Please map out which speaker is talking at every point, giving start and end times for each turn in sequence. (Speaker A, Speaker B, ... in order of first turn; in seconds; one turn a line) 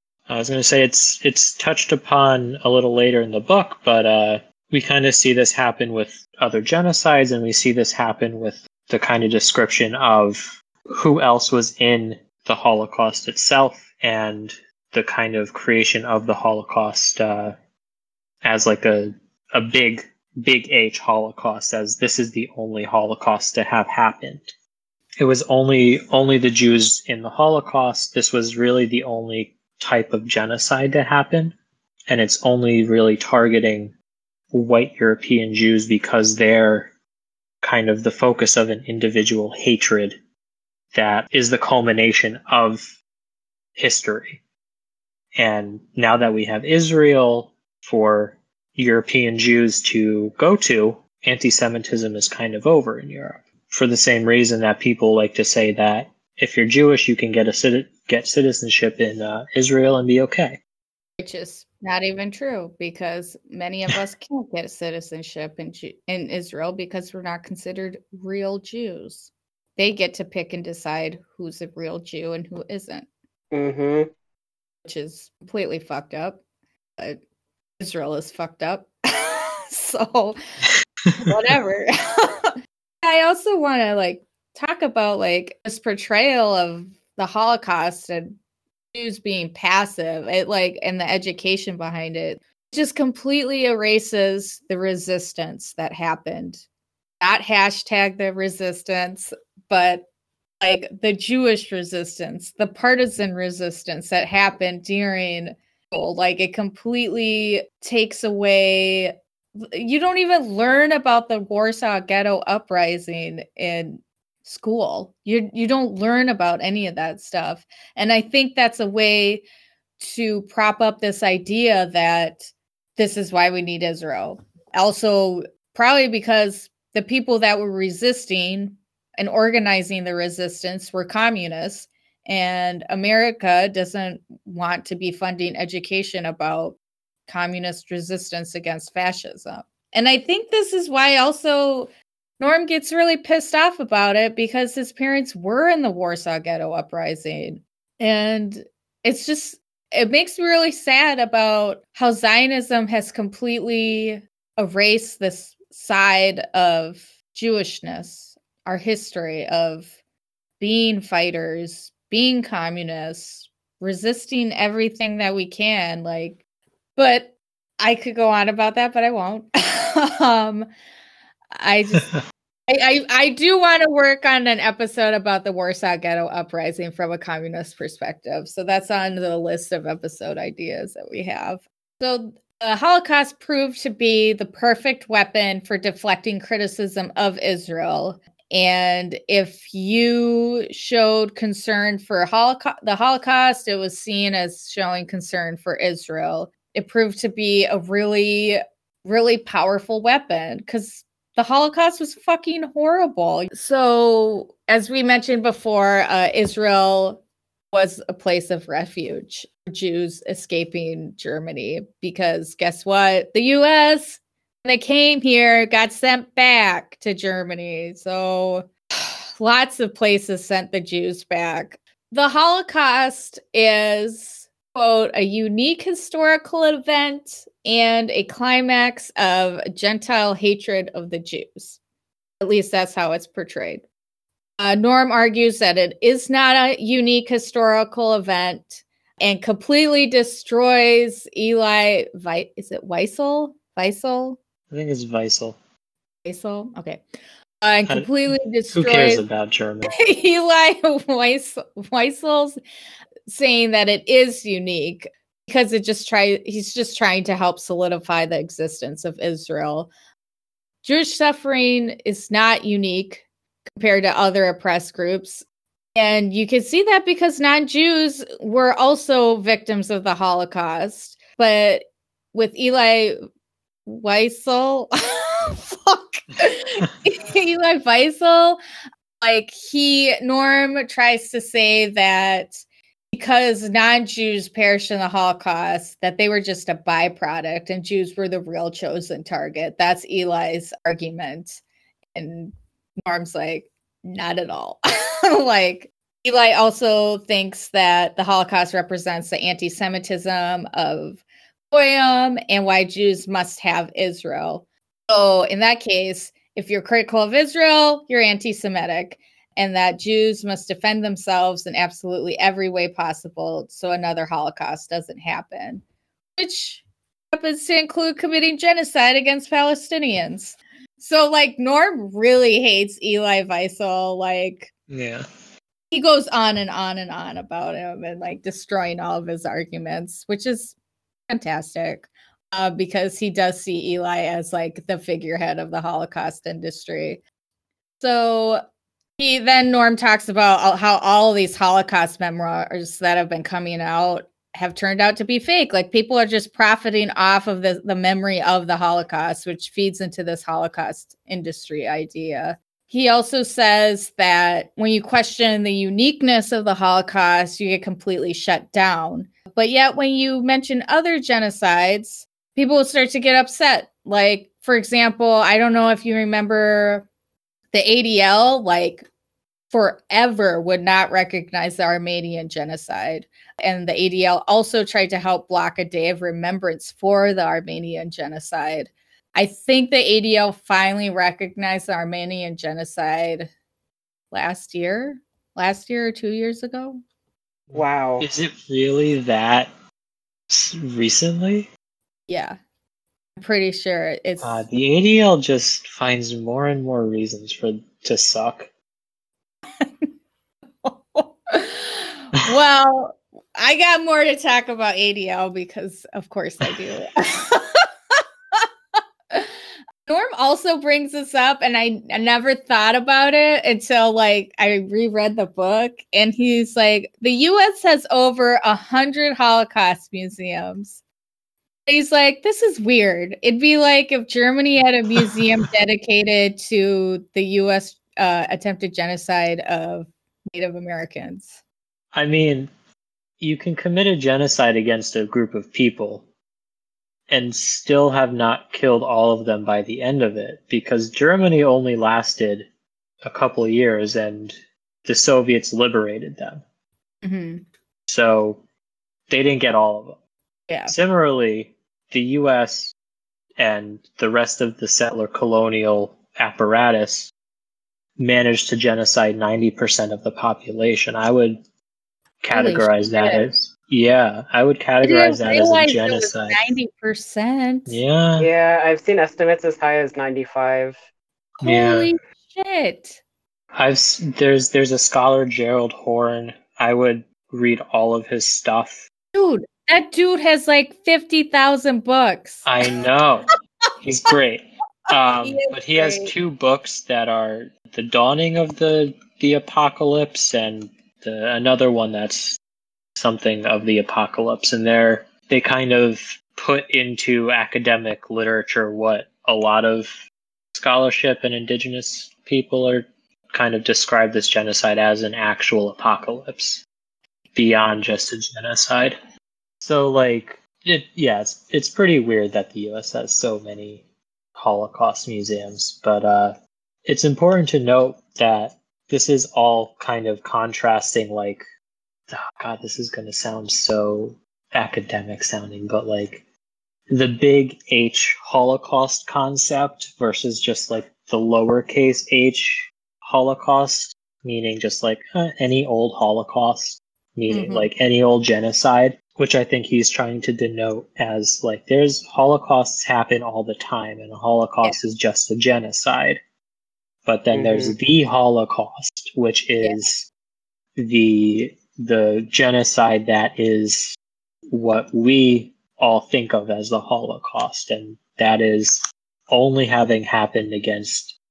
Speaker A: 0.3-17.6
Speaker A: 18.4-24.5
Speaker A: 25.2-31.6
Speaker A: 32.1-33.9
Speaker A: 34.5-36.9
Speaker A: 37.6-40.2
Speaker A: 40.9-43.0
Speaker A: 43.8-44.4
Speaker A: 45.4-60.6
Speaker B: 61.2-73.1
Speaker C: 73.5-74.1
Speaker B: 74.8-76.4
Speaker B: 77.8-80.4
Speaker A: 81.1-81.3
Speaker B: 81.2-88.3
Speaker B: 88.9-96.6
Speaker B: 97.2-100.0
Speaker B: 100.6-119.4
Speaker B: 120.0-159.9
Speaker B: 160.6-166.4
Speaker B: 167.0-170.7
Speaker B: 171.5-172.1
Speaker A: 171.9-172.2
Speaker B: 172.7-207.2
Speaker B: 207.7-231.8
Speaker B: 232.4-233.8
Speaker B: 234.6-244.4
Speaker A: 244.7-245.6
Speaker B: 246.2-247.0
Speaker B: 247.6-249.2
Speaker A: 247.9-248.1
Speaker A: 248.7-250.1
Speaker B: 249.9-252.6
Speaker B: 253.3-259.9
Speaker B: 260.8-263.2
Speaker B: 263.8-265.4
Speaker B: 265.9-273.2
Speaker B: 273.9-278.6
Speaker B: 279.2-282.6
Speaker B: 283.1-291.6
Speaker B: 292.1-315.8
Speaker B: 316.4-324.7
Speaker A: 324.9-325.2
Speaker B: 325.9-330.8
Speaker B: 331.3-337.2
Speaker B: 338.0-338.6
Speaker B: 339.2-367.1
Speaker B: 367.7-369.1
Speaker B: 369.7-383.5
Speaker B: 384.3-387.0
Speaker A: 387.7-389.7
Speaker C: 387.7-388.2
Speaker A: 390.5-391.7
Speaker B: 392.3-392.6
Speaker B: 393.4-394.6
Speaker A: 394.4-398.7
Speaker B: 399.8-400.1
Speaker B: 400.8-408.7
Speaker B: 409.3-421.0
Speaker B: 421.9-431.6
Speaker A: 425.1-425.4
Speaker A: 432.1-432.7
Speaker A: 433.4-436.3
Speaker A: 437.3-442.7
Speaker A: 443.2-446.6
Speaker B: 447.2-447.6
Speaker A: 448.1-448.6
Speaker A: 449.3-450.2
Speaker B: 450.7-450.9
Speaker A: 450.9-452.9
Speaker A: 453.6-457.3
Speaker A: 458.2-461.6
Speaker A: 462.4-466.6
Speaker B: 462.5-463.5
Speaker B: 465.0-468.0
Speaker A: 467.9-468.5
Speaker C: 468.4-471.0
Speaker B: 471.6-473.2
Speaker A: 471.6-472.1
Speaker A: 473.8-479.1
Speaker B: 479.4-482.7
Speaker A: 482.6-483.5
Speaker A: 484.0-492.6
Speaker B: 485.4-486.3
Speaker A: 493.2-500.2
Speaker A: 500.7-506.8
Speaker A: 507.5-509.2
Speaker A: 509.8-514.0
Speaker A: 514.5-521.6
Speaker A: 522.3-526.4
Speaker A: 527.1-546.4
Speaker B: 537.5-537.9
Speaker A: 547.2-550.3
Speaker C: 547.5-548.0
Speaker A: 551.0-554.2
Speaker A: 554.7-561.4